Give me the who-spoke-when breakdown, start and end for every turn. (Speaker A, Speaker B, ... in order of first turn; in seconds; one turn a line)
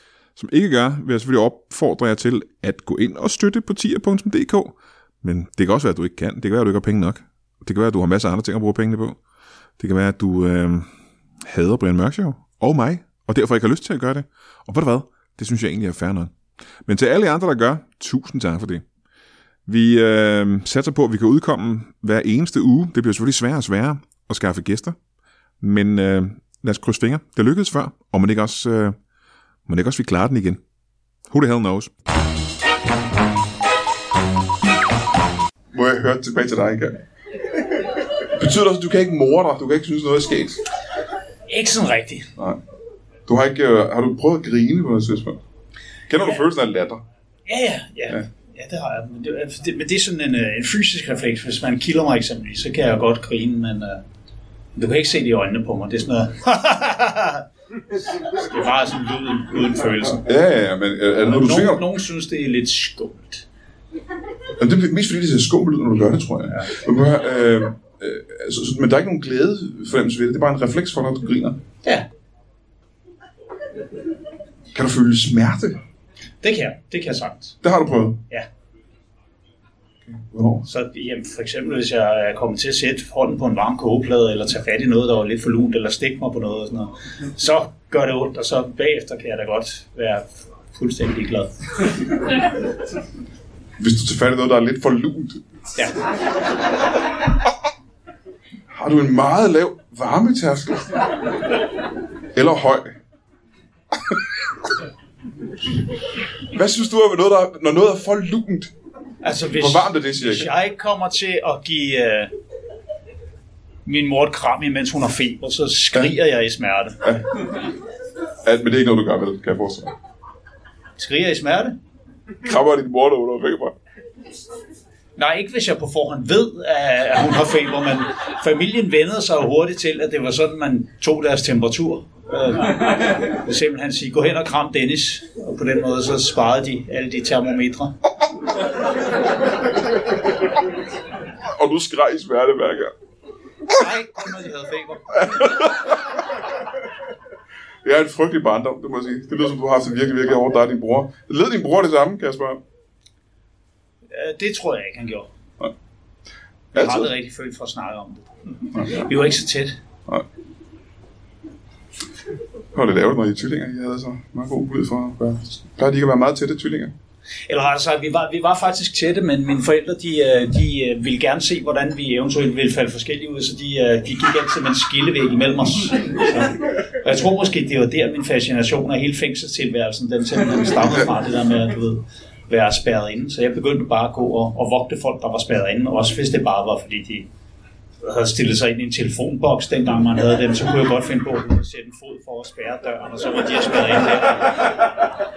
Speaker A: 0.4-9.2
Speaker A: 9.8-10.9
Speaker A: 11.4-16.3
Speaker A: 16.9-18.8
Speaker A: 19.7-25.0
Speaker A: 25.6-29.0
Speaker A: 29.7-30.6
Speaker A: 31.3-31.9
Speaker A: 35.7-37.0
Speaker A: 38.4-40.6
Speaker B: 41.5-42.3
Speaker A: 43.3-45.4
Speaker A: 46.1-47.0
Speaker B: 47.5-54.0
Speaker B: 54.8-57.5
Speaker B: 58.3-60.2
Speaker A: 60.3-61.8
Speaker B: 61.2-63.5
Speaker A: 64.6-71.6
Speaker A: 74.7-75.8
Speaker B: 76.4-77.6
Speaker A: 77.6-78.2
Speaker A: 80.1-80.7
Speaker B: 80.7-91.5
Speaker A: 93.8-95.4
Speaker A: 98.7-100.9
Speaker A: 102.3-103.0
Speaker A: 106.5-108.7
Speaker B: 109.2-112.3
Speaker A: 109.6-110.5
Speaker B: 113.8-117.0
Speaker A: 118.4-119.9
Speaker B: 121.0-121.8
Speaker A: 122.5-123.7
Speaker B: 125.2-137.9
Speaker A: 141.5-142.9
Speaker B: 143.7-145.5
Speaker A: 145.2-145.9
Speaker A: 147.8-152.6
Speaker B: 154.1-155.3
Speaker B: 156.7-159.8
Speaker A: 156.8-157.1
Speaker A: 158.8-159.1
Speaker A: 162.7-166.9
Speaker B: 167.5-187.3
Speaker B: 188.0-194.7